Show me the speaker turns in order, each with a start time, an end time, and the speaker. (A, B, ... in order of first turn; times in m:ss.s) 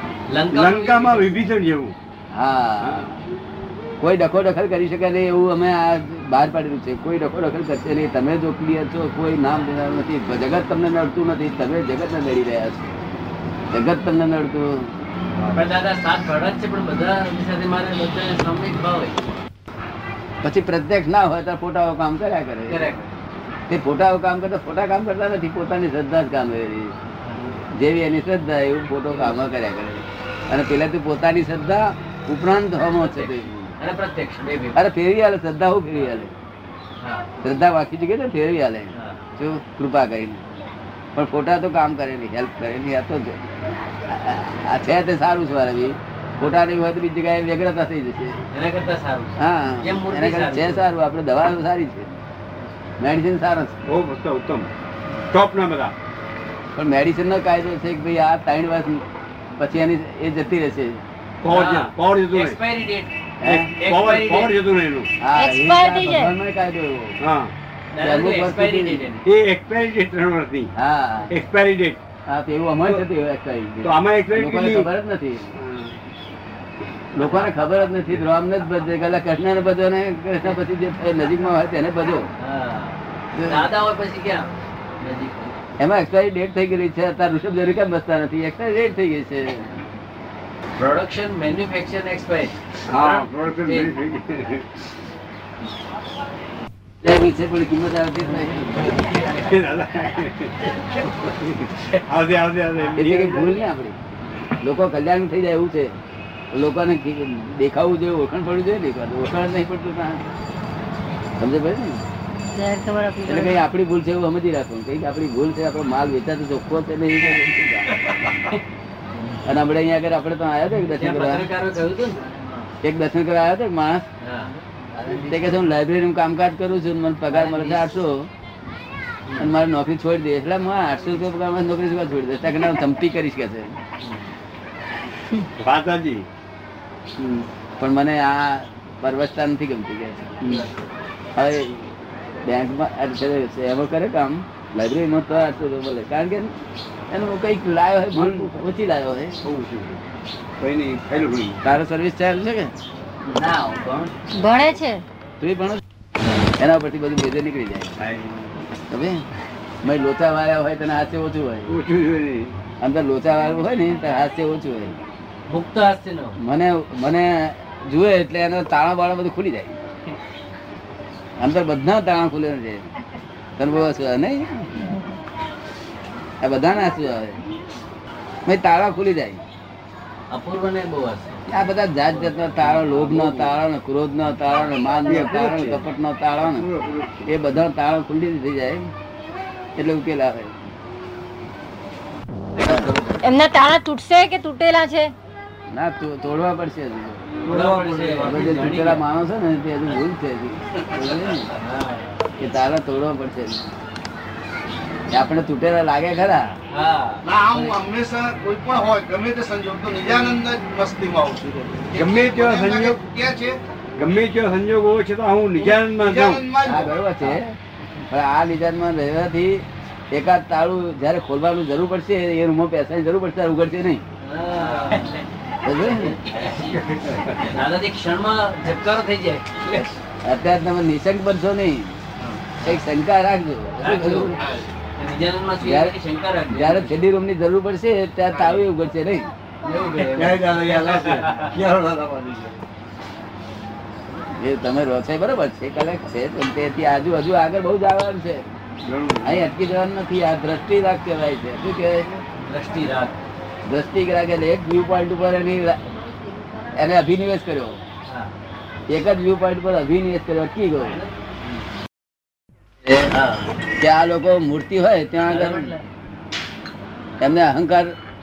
0:00.3-0:01.4 A
0:00.5-0:02.0 B
0:02.3-0:03.2 C
0:04.0-0:12.9 C
0:13.7-0:14.9 C
0:15.5-0:19.2 A
0:20.4-0:22.9 C
0:22.7-0:23.2 A
0:23.7-0:26.9 C
0:27.2-0:27.6 A
0:27.7-0:33.6 C
0:32.9-0:34.8 A
0:34.7-0:36.3 C
0:37.0-0:37.3 A
0:37.4-0:40.4 C
0:38.9-0:39.2 A
0:41.1-0:43.4 C
0:44.0-0:48.4 C
0:48.5-0:50.9 A
0:49.4-0:52.2 C
0:53.0-0:53.7 C
0:53.8-0:54.7 B
0:55.3-0:55.9 B
0:56.7-0:59.0 C
0:59.6-1:01.0 C
1:01.4-1:02.6 B
1:01.4-1:03.2 A
1:03.4-1:03.7 C
1:03.4-1:05.1 B
1:03.8-1:04.5 A
1:05.2-1:07.2 C
1:05.3-1:06.3 D
1:07.2-1:07.5 B
1:07.9-1:09.2 A
1:08.0-1:09.2 C
1:09.2-1:10.7 B
1:10.8-1:11.3 C
1:11.3-1:12.0 B
1:12.3-1:15.6 C
1:13.8-1:14.9 B
1:15.6-1:16.0 B
1:17.1-1:22.3 C
1:17.2-1:17.5 A
1:22.4-1:25.6 A
1:23.3-1:23.6 C
1:25.8-1:29.8 C
1:30.8-1:33.9 A
1:32.9-1:34.7 B
1:37.0-1:39.1 C
1:38.9-1:39.3 A
1:39.3-1:43.6 B
1:42.9-1:44.0 C
1:44.6-1:45.9 C
1:46.5-1:50.2 C
1:51.4-1:52.0 C
1:52.5-1:53.6 D
1:53.2-1:58.0 C
1:57.9-1:58.6 A
1:59.4-2:01.5 C
2:00.9-2:02.6 A
2:02.8-2:04.0 C
2:04.2-2:05.6 A
2:05.3-2:08.3 C
2:07.3-2:08.0 A
2:09.3-2:09.5 A
2:09.4-2:13.8 C
2:14.0-2:14.3 A
2:15.6-2:16.2 B
2:17.8-2:20.4 C
2:20.4-2:20.9 A
2:21.4-2:21.8 C
2:22.4-2:26.5 C
2:27.1-2:29.4 C
2:28.1-2:28.6 B
2:29.4-2:30.0 B
2:30.6-2:31.6 B
2:31.6-2:32.7 C
2:33.2-2:34.1 A
2:34.3-2:35.0 D
2:35.4-2:35.8 C
2:36.6-2:38.0 C
2:38.0-2:38.3 B
2:38.9-2:39.2 C
2:39.8-2:41.8 C
2:41.7-2:42.6 B
2:42.8-2:45.0 C
2:45.5-2:46.4 A
2:46.4-2:49.8 C
2:51.4-2:52.9 C
2:53.6-2:54.7 C
2:56.4-2:57.4 C
2:58.4-2:59.4 C
3:00.3-3:01.4 A
3:01.5-3:06.7 C
3:02.3-3:02.7 A
3:02.6-3:03.6 B
3:05.0-3:05.8 B
3:06.4-3:07.3 B
3:07.2-3:08.9 C
3:09.8-3:10.5 C
3:12.6-3:13.2 A
3:12.6-3:12.9 C
3:13.2-3:15.1 D
3:15.7-3:17.4 C
3:17.4-3:18.7 B
3:17.4-3:19.0 A
3:18.2-3:21.5 C
3:21.0-3:22.3 A
3:22.4-3:23.6 C
3:25.1-3:26.5 C
3:26.7-3:27.3 A
3:27.2-3:33.6 E
3:31.9-3:33.0 B
3:34.0-3:36.5 B
3:35.7-3:36.9 E
3:36.6-3:37.5 C
3:38.1-3:44.0 C
3:44.2-3:49.9 A
3:45.6-3:46.2 C
3:46.3-3:47.5 B
3:49.7-3:52.0 C
3:52.2-3:52.8 A
3:52.6-3:54.4 C
3:53.8-3:56.9 A
3:55.6-3:56.0 C
3:56.5-3:59.3 C
3:59.6-4:01.5 A
4:00.0-4:02.6 B
4:04.3-4:08.4 C
4:08.8-4:09.5 B
4:09.2-4:12.2 C
4:12.4-4:13.2 A
4:13.6-4:15.8 C
4:16.7-4:17.8 C
4:18.9-4:21.0 C
4:20.8-4:21.1 A
4:23.1-4:23.5 A
4:23.8-4:25.7 C
4:25.2-4:25.8 A
4:27.2-4:27.9 C